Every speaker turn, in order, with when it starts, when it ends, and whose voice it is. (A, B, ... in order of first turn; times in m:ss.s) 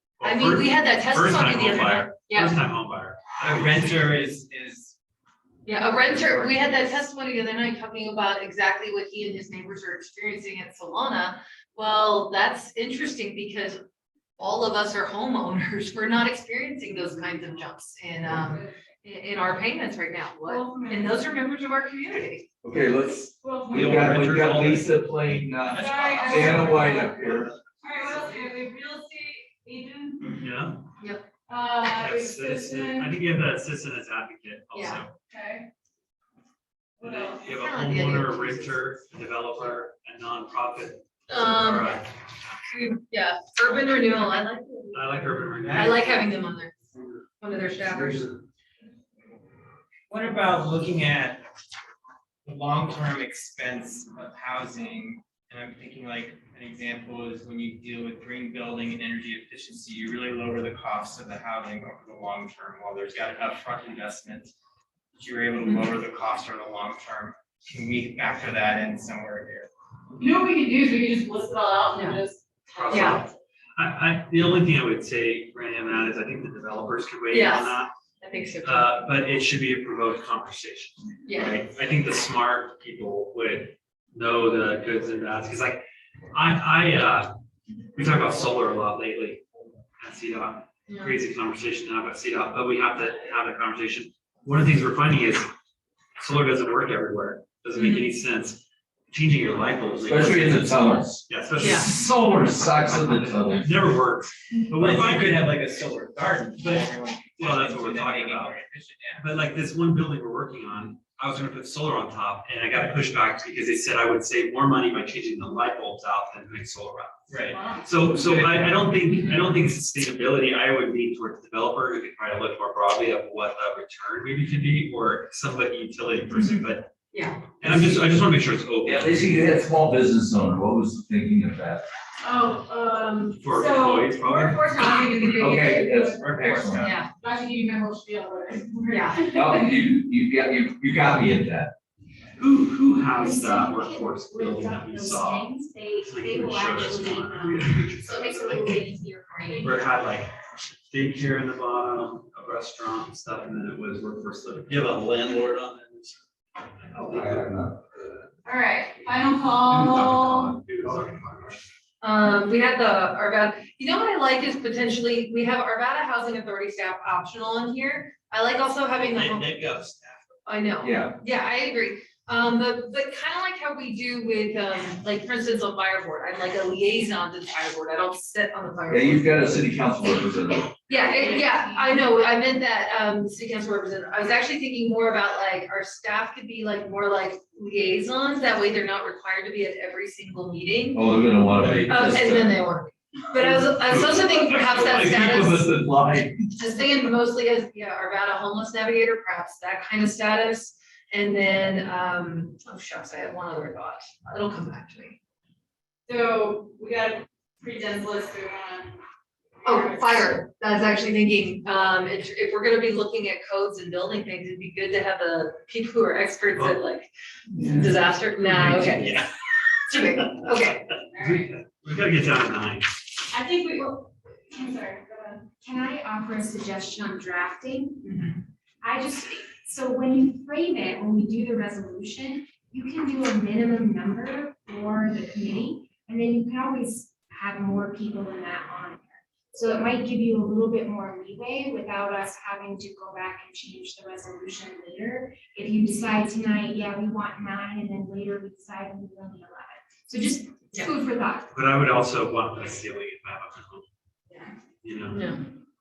0:00.2-0:04.2 A
0:00.2-0:02.6 B
0:03.4-0:05.0 C
0:05.7-0:13.8 B
0:05.8-0:06.7 C
0:14.4-0:22.5 B
0:18.4-0:18.7 D
0:20.4-0:21.3 D
0:22.6-0:27.5 E
0:23.4-0:24.2 D
0:23.7-0:24.9 A
0:24.0-0:24.7 C
0:25.7-0:27.6 C
0:25.7-0:30.4 D
0:30.4-0:30.8 A
0:31.0-0:31.3 B
0:31.5-0:33.2 D
0:31.8-0:35.1 A
0:34.7-0:35.0 B
0:35.3-0:35.7 D
0:37.0-0:37.5 D
0:37.0-0:42.1 A
0:37.4-0:38.8 B
0:41.3-0:42.0 B
0:42.7-0:46.7 B
0:44.9-0:46.3 A
0:45.6-0:46.1 C
0:47.4-0:48.3 B
0:50.1-0:51.4 C
0:52.4-1:04.5 C
1:05.2-1:09.7 C
1:05.6-1:05.9 B
1:10.2-1:13.3 D
1:11.9-1:12.2 B
1:12.7-1:17.9 A
1:12.9-1:13.2 B
1:17.3-1:19.0 B
1:18.6-1:27.3 A
1:21.2-1:21.6 B
1:28.0-1:29.4 A
1:30.0-1:35.5 A
1:30.9-1:31.2 B
1:36.2-1:42.0 A
1:37.8-1:38.0 B
1:40.1-1:43.9 E
1:41.6-1:41.9 B
1:42.6-1:45.6 A
1:44.8-1:49.2 C
1:46.6-1:48.6 A
1:49.2-2:06.9 A
1:57.3-1:57.7 C
1:57.5-1:57.9 D
1:58.2-1:58.5 C
2:07.1-2:07.4 B
2:07.6-2:09.2 A
2:07.6-2:08.0 E
2:08.8-2:11.8 E
2:12.2-2:19.7 D
2:13.4-2:14.6 A
2:15.2-2:17.0 E
2:16.8-2:17.1 B
2:18.9-2:19.3 B
2:19.3-2:21.7 E
2:22.4-2:25.5 A
2:23.1-2:29.7 F
2:26.0-2:28.8 A
2:28.0-2:29.6 B
2:29.6-2:30.3 A
2:30.9-2:36.2 A
2:36.8-2:38.2 A
2:37.0-2:37.8 E
2:38.4-2:40.6 D
2:39.7-2:41.6 A
2:42.0-2:49.5 B
2:49.0-2:50.2 A
2:50.5-2:59.5 B
2:50.8-2:51.2 E
2:58.9-3:00.8 E
3:00.9-3:02.0 F
3:00.9-3:11.0 B
3:10.9-3:12.6 E
3:11.8-3:15.7 B
3:13.4-3:16.5 E
3:16.6-3:25.2 B
3:26.1-3:29.0 D
3:29.6-3:30.3 D
3:29.6-3:37.1 B
3:37.5-3:38.0 E
3:37.6-3:39.2 B
3:38.5-3:39.2 A
3:39.9-3:40.9 B
3:41.2-3:41.5 D
3:41.2-3:43.0 A
3:43.3-3:45.5 D
3:45.6-3:48.2 F
3:48.8-4:11.5 F
4:11.5-4:13.8 A
4:14.8-4:15.4 A
4:15.1-4:15.4 B